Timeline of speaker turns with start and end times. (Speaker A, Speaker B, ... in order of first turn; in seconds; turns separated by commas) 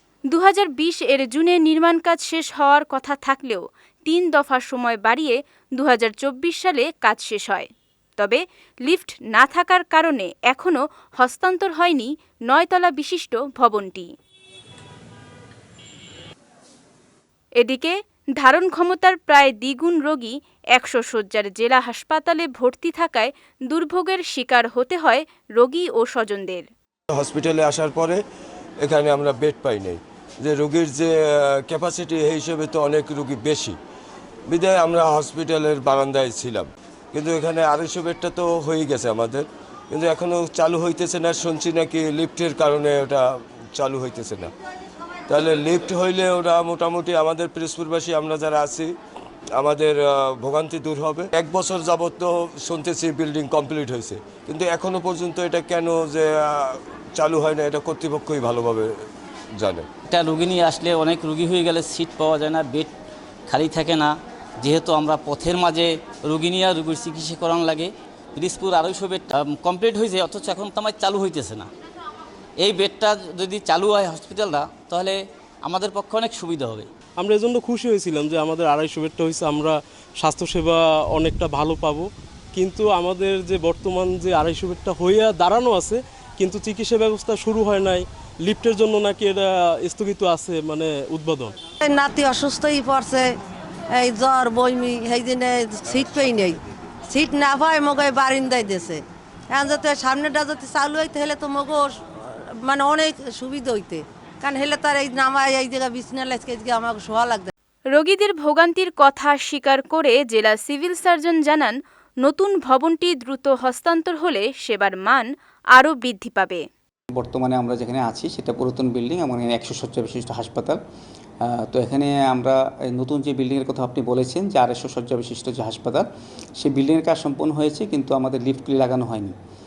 Speaker A: 0.3-14.1, Speaker A: 17.6-26.7, Speaker B: 27.2-28.1, Speaker B: 28.9-29.9, Speaker B: 30.5-31.1, Speaker B: 31.7-33.6, Speaker B: 34.5-36.6, Speaker B: 37.2-39.3, Speaker B: 40.0-43.2, Speaker B: 43.8-44.4, Speaker B: 45.3-48.8, Speaker B: 49.6-49.9, Speaker B: 50.4-56.2, Speaker B: 57.2-58.8, Speaker C: 60.1-62.9, Speaker C: 63.5-71.7, Speaker C: 72.6-76.9, Speaker D: 77.2-91.5, Speaker E: 91.8-93.3, Speaker E: 94.0-99.0, Speaker E: 99.5-107.5, Speaker A: 107.9-116.6, Speaker F: 117.1-120.8, Speaker F: 121.4-126.1, Speaker F: 126.6-129.3